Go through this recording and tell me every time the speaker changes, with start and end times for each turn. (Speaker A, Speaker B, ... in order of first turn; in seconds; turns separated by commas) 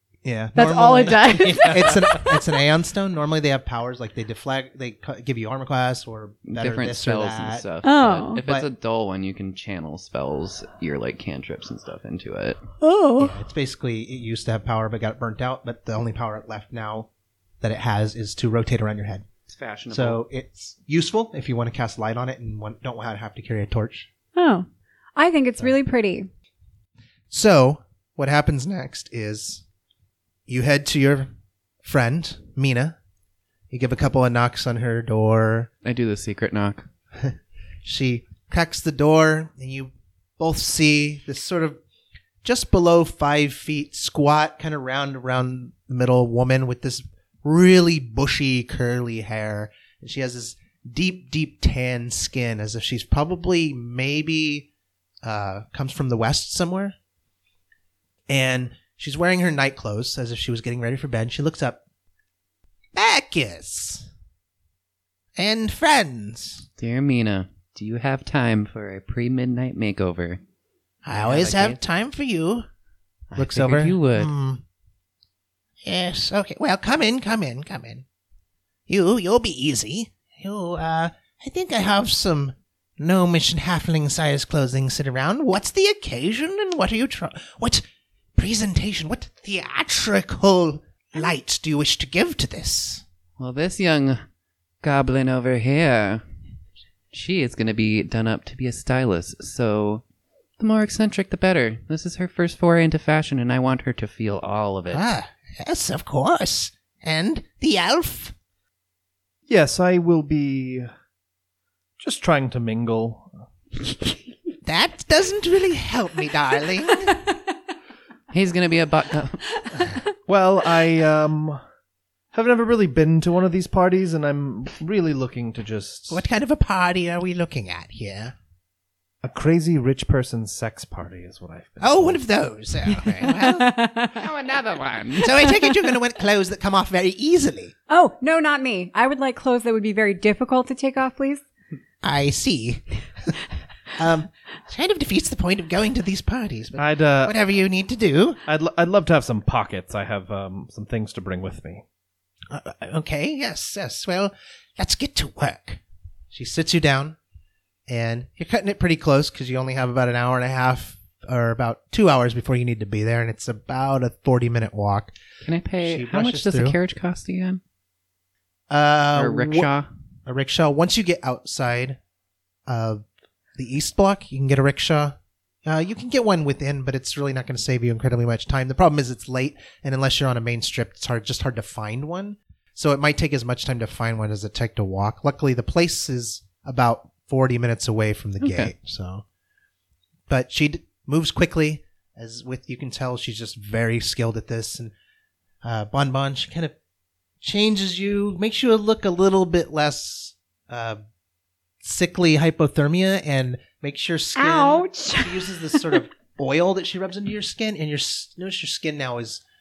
Speaker A: 0.2-7.7, Speaker B: 0.5-2.4, Speaker C: 1.2-2.2, Speaker D: 6.5-12.6, Speaker B: 7.8-8.4, Speaker B: 12.8-13.3, Speaker A: 13.2-17.1, Speaker A: 17.6-19.2, Speaker D: 19.5-20.2, Speaker A: 19.9-24.1, Speaker B: 24.3-26.3, Speaker A: 27.3-29.6, Speaker A: 30.5-31.3, Speaker A: 31.8-33.0, Speaker A: 33.7-35.7, Speaker D: 35.8-36.9, Speaker A: 37.2-41.8, Speaker A: 42.4-54.7, Speaker A: 55.2-56.9, Speaker A: 58.3-61.8, Speaker A: 62.9-64.1, Speaker A: 65.3-66.7, Speaker D: 66.8-70.4, Speaker A: 71.0-72.7, Speaker D: 71.1-71.8, Speaker D: 73.3-74.3, Speaker A: 73.3-74.6, Speaker A: 75.8-78.0, Speaker A: 78.9-87.8, Speaker A: 88.3-93.0, Speaker D: 93.4-94.2, Speaker D: 94.8-96.2, Speaker D: 97.1-100.0, Speaker D: 100.6-105.0, Speaker A: 104.9-108.3, Speaker C: 109.5-110.9, Speaker C: 112.0-113.3, Speaker A: 114.6-117.2, Speaker D: 118.3-119.4, Speaker B: 119.6-120.1, Speaker C: 120.3-121.6, Speaker C: 122.3-126.2, Speaker A: 126.1-128.3, Speaker C: 129.2-132.2, Speaker A: 131.8-133.8, Speaker B: 133.0-134.3, Speaker D: 134.1-135.4, Speaker A: 135.2-137.7, Speaker B: 137.9-141.4, Speaker A: 142.0-142.8, Speaker A: 144.0-148.4, Speaker C: 146.8-147.3, Speaker C: 148.4-151.8, Speaker A: 152.5-157.2, Speaker A: 157.9-165.1, Speaker D: 165.5-167.6, Speaker A: 165.8-166.8, Speaker A: 168.7-169.7, Speaker D: 169.1-169.9, Speaker A: 170.2-172.0, Speaker A: 172.7-173.0, Speaker A: 173.6-189.2, Speaker D: 188.4-188.7, Speaker A: 190.3-194.9, Speaker A: 195.6-196.7, Speaker A: 197.4-201.0, Speaker A: 201.8-209.4, Speaker B: 204.3-206.0